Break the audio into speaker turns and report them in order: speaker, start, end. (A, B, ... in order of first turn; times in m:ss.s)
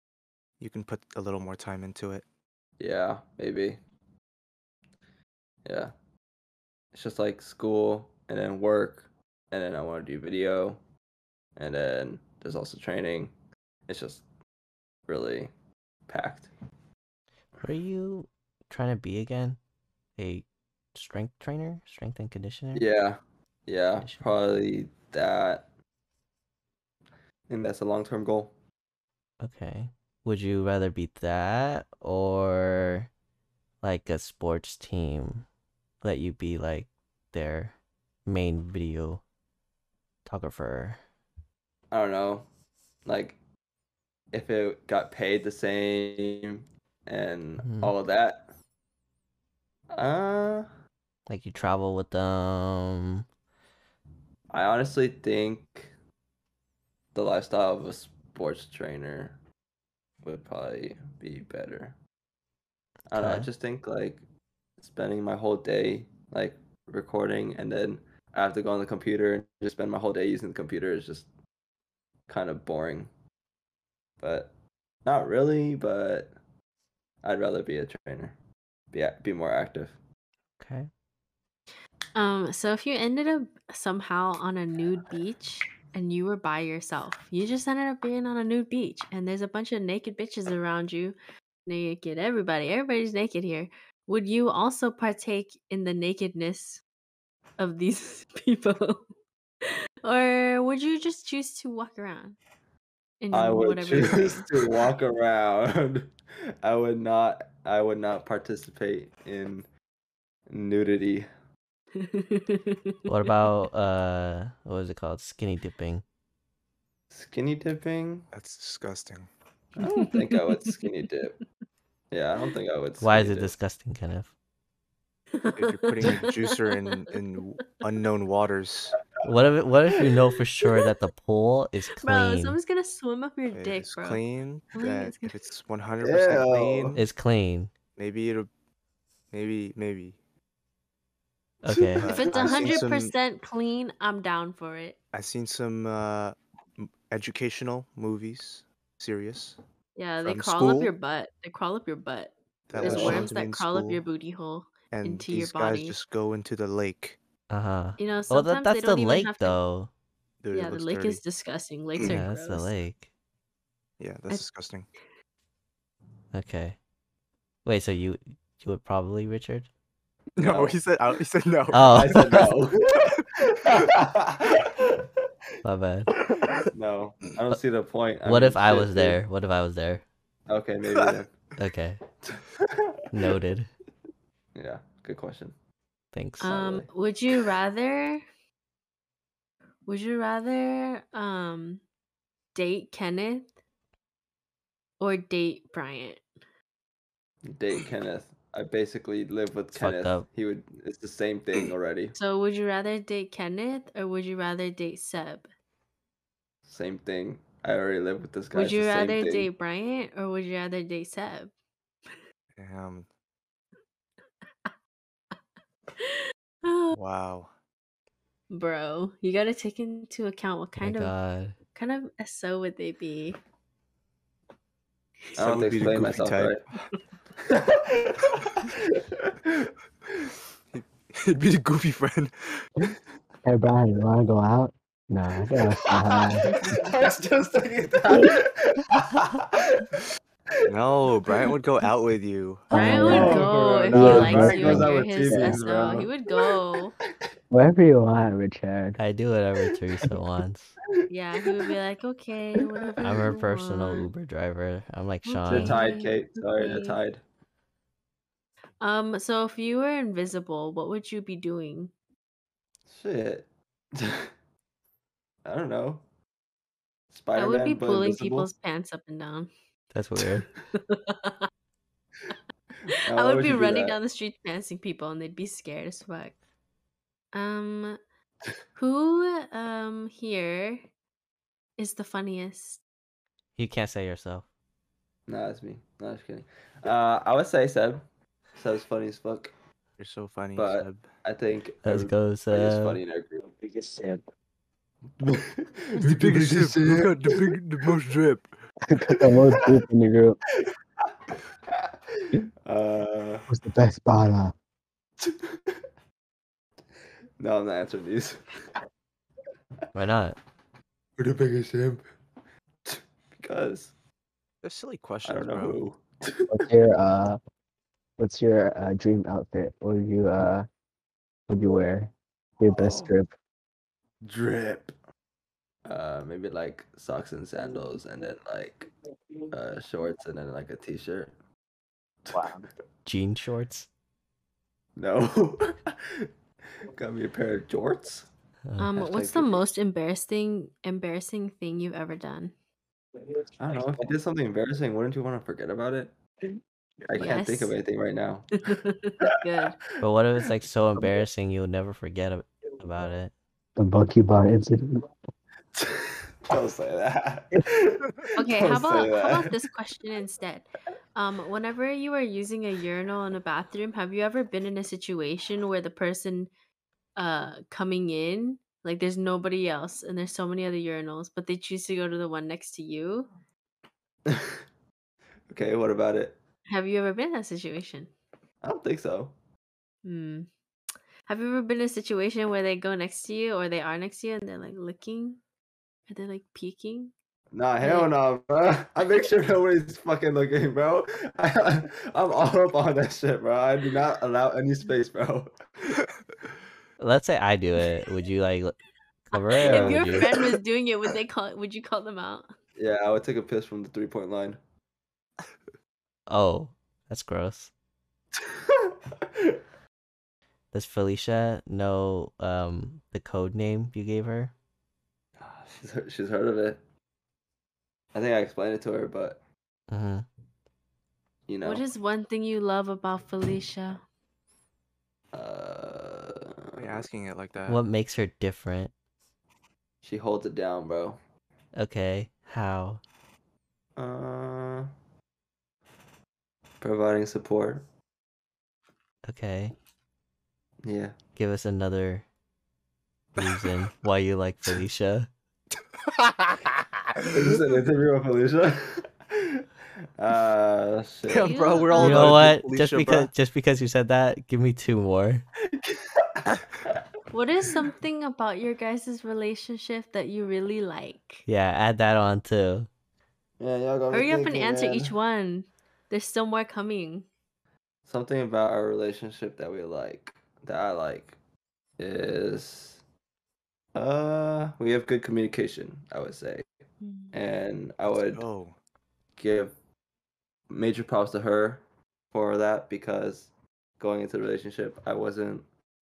0:00.6-0:02.2 A
0:02.8-0:03.8 B
0:05.6-0:05.9 B
0:06.9-0:10.8 B
0:11.6-0:13.3 B
0:13.9-0:14.2 B
0:15.1-0:15.5 B
0:16.1-0:16.5 B
0:17.6-0:19.6 C
0:20.2-0:22.8 C
0:22.7-0:25.7 B
0:27.5-0:28.5 B
0:29.4-0:33.1 C
0:33.8-0:35.4 C
0:36.0-0:37.7 C
0:38.3-0:39.2 C
0:40.2-0:41.0 C
0:41.9-0:42.5 B
0:43.0-0:43.4 B
0:44.3-0:48.5 B
0:47.6-0:47.9 C
0:49.9-0:50.7 B
0:51.3-0:53.2 C
0:54.5-0:55.9 B
0:57.1-0:59.4 B
1:00.2-1:02.0 B
1:03.1-1:04.2 B
1:03.1-1:03.5 C
1:04.8-1:11.3 B
1:12.3-1:13.1 B
1:14.2-1:14.5 B
1:15.0-1:16.4 B
1:17.2-1:18.4 B
1:18.9-1:20.0 B
1:20.6-1:20.9 C
1:22.2-1:36.8 D
1:37.6-1:39.0 D
1:39.6-1:42.4 D
1:43.2-1:44.5 D
1:43.3-1:49.7 B
1:50.5-1:51.3 B
1:52.0-1:53.3 D
1:53.1-1:56.0 C
1:57.1-1:58.3 B
1:58.3-1:59.3 A
1:59.8-2:01.4 B
1:59.9-2:00.8 D
2:02.1-2:03.6 B
2:03.0-2:04.3 C
2:05.4-2:06.6 D
2:05.5-2:09.0 A
2:09.2-2:12.6 C
2:12.0-2:14.2 D
2:13.5-2:17.0 A
2:14.7-2:15.4 D
2:16.0-2:17.0 B
2:16.9-2:17.7 C
2:18.0-2:18.5 A
2:19.3-2:20.2 A
2:21.6-2:22.1 C
2:21.7-2:22.8 B
2:22.0-2:23.1 A
2:22.0-2:25.0 D
2:25.1-2:29.6 A
2:30.0-2:36.0 D
2:30.2-2:30.9 A
2:32.7-2:34.0 A
2:32.7-2:33.3 B
2:34.9-2:37.2 A
2:37.5-2:39.9 C
2:38.0-2:39.6 D
2:40.4-2:41.2 A
2:40.5-2:42.7 D
2:42.0-2:43.1 C
2:44.0-2:44.9 A
2:46.3-2:46.8 C
2:47.6-2:49.7 C
2:50.4-2:52.4 A
2:50.4-2:50.8 B
2:51.7-2:52.6 C
2:51.9-2:55.1 B
2:55.6-2:56.1 C
2:56.7-2:59.2 B
2:58.2-3:00.0 C
3:00.5-3:01.4 B
3:01.6-3:02.0 C
3:02.3-3:03.2 B
3:03.1-3:03.7 C
3:04.6-3:05.5 B
3:06.1-3:06.6 C
3:06.4-3:08.2 D
3:06.5-3:06.9 B
3:09.9-3:11.8 D
3:12.6-3:13.5 D
3:15.0-3:16.2 D
3:17.4-3:22.1 B
3:19.8-3:20.3 C
3:22.1-3:25.5 D
3:26.6-3:29.5 B
3:28.5-3:31.5 D
3:32.6-3:33.1 A
3:36.0-3:37.0 D
3:36.9-3:37.5 A
3:38.5-3:41.1 D
3:40.8-3:41.6 C
3:41.7-3:43.4 D
3:45.4-3:46.6 A
3:45.4-3:46.6 B
3:47.4-3:49.7 B
3:50.7-3:52.7 A
3:53.4-3:56.8 E
3:56.4-3:57.0 D
3:56.6-3:59.9 B
4:00.6-4:02.7 A
4:02.7-4:05.6 E
4:02.7-4:07.0 D
4:03.0-4:06.6 B
4:07.5-4:09.0 E
4:09.0-4:10.8 C
4:11.1-4:14.1 D
4:11.4-4:11.8 B
4:13.0-4:15.8 C
4:15.2-4:17.0 D
4:15.5-4:17.2 B
4:18.8-4:21.9 D
4:22.9-4:24.3 B
4:25.4-4:26.0 B
4:27.1-4:28.5 B
4:27.4-4:29.5 D
4:29.9-4:30.5 C
4:30.7-4:31.4 D
4:33.0-4:34.0 B
4:33.1-4:36.3 D
4:37.3-4:38.0 D
4:38.8-4:40.9 D
4:41.8-4:42.8 D
4:43.6-4:44.4 C
4:45.3-4:49.5 B
4:50.0-4:51.1 A
4:50.6-4:53.4 B
4:51.8-4:53.0 C
4:53.4-4:54.2 E
4:55.2-4:57.5 B
4:56.0-4:58.5 A
4:58.9-5:00.4 E
4:59.3-4:59.8 B
5:00.6-5:03.5 B
5:03.5-5:04.5 E
5:05.2-5:05.8 B
5:07.4-5:08.4 B
5:09.9-5:10.4 C
5:11.2-5:12.0 B
5:12.8-5:13.9 B
5:14.6-5:15.8 A
5:15.2-5:16.6 B
5:16.5-5:17.4 E
5:18.2-5:20.7 E
5:21.5-5:23.3 E
5:22.7-5:23.1 B
5:24.2-5:25.0 B
5:25.9-5:28.9 B
5:29.5-5:31.3 B
5:32.2-5:32.6 B
5:32.3-5:32.6 E
5:33.0-5:33.9 C
5:35.0-5:36.3 B
5:36.9-5:38.3 B
5:38.7-5:39.0 C
5:38.8-5:42.5 D
5:39.0-5:39.6 B
5:43.6-5:46.1 B
5:43.7-5:44.1 E
5:47.1-5:48.6 B
5:47.2-5:47.7 D
5:48.6-5:49.8 D
5:50.0-5:53.3 C
5:53.8-5:55.0 E
5:55.7-5:59.6 B
5:58.4-6:06.5 D
6:07.2-6:13.3 D
6:14.3-6:14.6 B
6:15.5-6:16.4 B
6:16.7-6:18.1 D
6:18.6-6:19.3 B
6:20.0-6:20.5 D
6:21.3-6:25.4 D
6:26.1-6:27.1 D
6:27.5-6:35.5 B
6:27.8-6:28.1 D
6:37.0-6:38.8 C
6:39.3-6:40.4 C
6:39.3-6:42.5 D
6:39.6-6:40.3 B
6:42.8-6:44.6 B
6:46.3-6:47.7 C
6:48.4-6:49.6 B
6:50.7-6:54.5 C
6:55.4-6:56.8 B
6:58.1-6:59.4 B
6:59.9-7:00.3 C
7:01.5-7:01.8 B
7:01.6-7:04.0 D
7:05.3-7:07.0 B
7:06.8-7:07.8 A
7:07.7-7:08.9 C
7:10.0-7:11.2 B
7:11.8-7:13.0 C
7:14.0-7:14.9 B
7:16.8-7:17.9 B
7:19.3-7:19.7 C
7:20.8-7:21.2 B
7:21.3-7:22.2 C
7:23.4-7:25.3 C
7:23.4-7:23.7 A
7:26.1-7:27.3 A
7:27.3-7:29.7 B
7:30.2-7:31.6 B
7:31.3-7:33.3 A
7:31.4-7:32.3 D
7:32.0-7:35.4 C
7:35.7-7:37.1 B
7:37.3-7:41.4 D
7:41.4-7:42.9 C
7:43.6-7:45.1 B
7:44.1-7:47.3 D
7:48.0-7:51.4 B
7:52.0-7:53.0 B
7:54.0-7:56.7 B
7:57.0-7:57.3 D
7:57.3-7:58.4 B
7:58.1-7:58.8 A
7:59.4-7:59.7 B
8:00.7-8:05.6 B